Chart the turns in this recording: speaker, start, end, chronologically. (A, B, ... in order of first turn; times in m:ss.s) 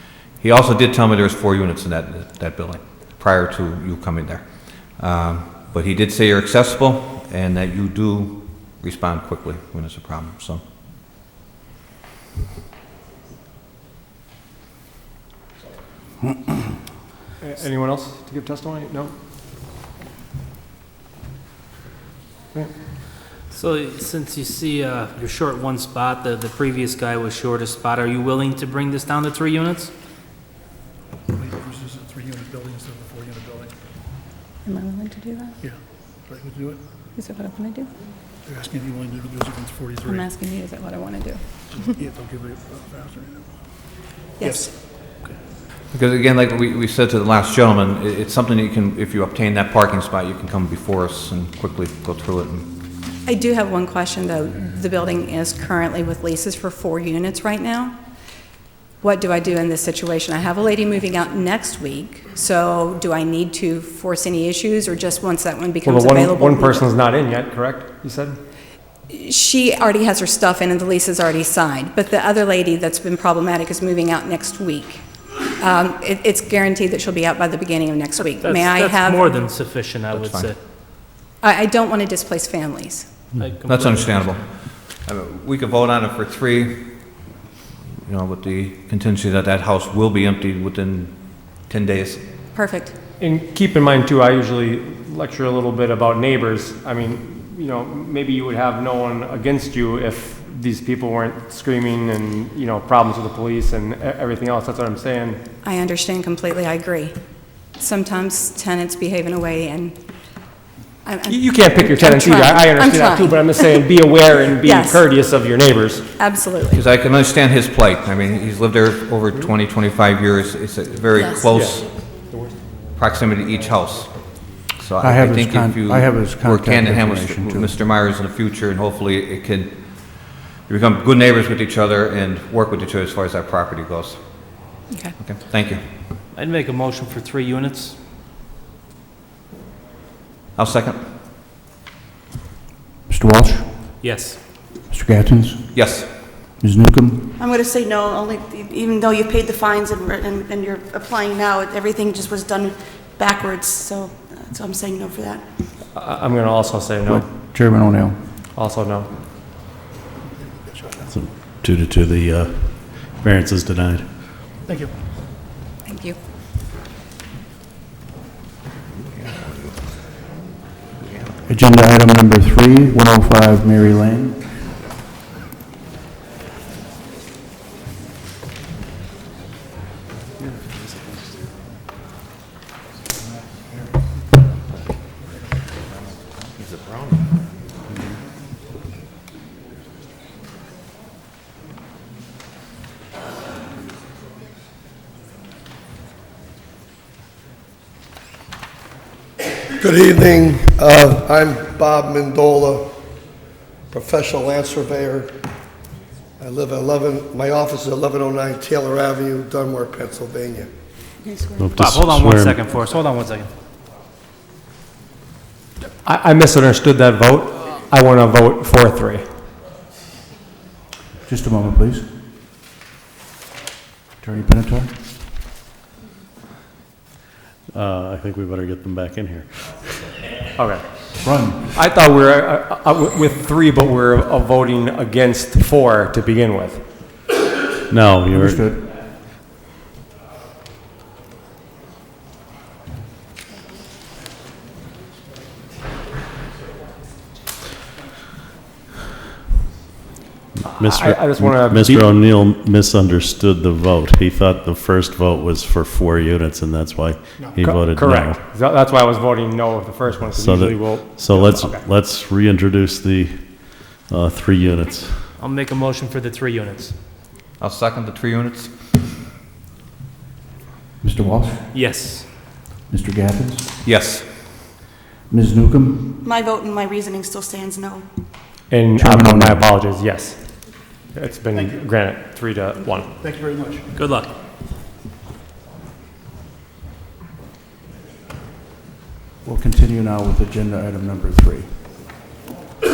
0:00.4-0:10.6 A
0:17.4-0:19.1 B
0:23.5-0:29.9 C
0:31.4-0:33.8 D
0:34.6-0:35.6 E
0:36.3-0:36.8 D
0:37.2-0:37.9 E
0:38.5-0:40.3 D
0:40.0-0:41.8 E
0:41.7-0:43.4 D
0:44.4-0:44.7 E
0:44.4-0:44.7 D
0:45.9-0:52.7 A
0:53.3-0:58.0 E
0:59.0-1:06.9 E
1:05.8-1:08.4 B
1:09.1-1:15.0 E
1:15.6-1:19.5 E
1:18.2-1:20.6 C
1:20.1-1:20.5 A
1:21.4-1:23.1 E
1:23.4-1:24.3 C
1:23.7-1:24.4 A
1:25.0-1:27.3 A
1:28.0-1:32.2 A
1:32.5-1:32.9 E
1:33.2-1:45.4 B
1:45.6-1:47.2 E
1:47.8-1:50.0 E
1:51.0-1:53.8 E
1:51.3-1:56.1 B
1:54.6-1:55.1 E
1:56.2-1:56.8 E
1:56.7-2:01.9 A
2:01.2-2:01.7 E
2:01.5-2:02.7 B
2:03.0-2:04.2 A
2:04.8-2:15.8 A
2:05.0-2:07.8 F
2:14.9-2:15.2 E
2:16.3-2:18.0 C
2:20.6-2:21.0 A
2:23.1-2:23.7 F
2:24.0-2:24.4 C
2:24.9-2:26.0 F
2:25.7-2:26.1 A
2:26.6-2:27.3 F
2:27.4-2:35.4 G
2:35.9-2:37.3 B
2:37.0-2:38.2 F
2:38.6-2:39.1 B
2:40.6-2:41.1 D
2:41.1-2:44.1 H
2:44.7-2:44.9 D
2:45.9-2:46.2 E
2:51.5-2:54.5 F
3:19.7-3:22.9 I
3:23.9-3:25.4 I
3:26.4-3:30.7 I
3:31.2-3:31.6 G
3:31.6-3:32.6 H
3:31.8-3:33.5 C
3:36.0-3:39.2 B
3:41.2-3:42.1 F
3:44.2-3:45.1 F
3:47.7-3:50.2 H
3:50.6-3:51.1 B
3:51.2-3:51.8 F
3:51.7-3:56.9 B
3:57.9-3:58.7 H
3:58.3-3:58.8 F
4:10.6-4:18.4 H
4:10.6-4:12.1 B
4:17.6-4:21.9 B
4:20.3-4:25.3 H
4:25.4-4:27.0 C
4:27.6-4:28.7 A
4:31.0-4:31.6 F
4:31.7-4:32.3 C
4:32.9-4:33.7 F
4:33.8-4:34.3 A
4:35.3-4:36.1 F
4:36.2-4:38.1 G
4:38.7-4:43.2 B
4:39.0-4:39.6 F
4:41.5-4:41.8 D
4:43.2-4:43.8 D
4:44.0-4:44.3 C
4:49.4-4:51.8 F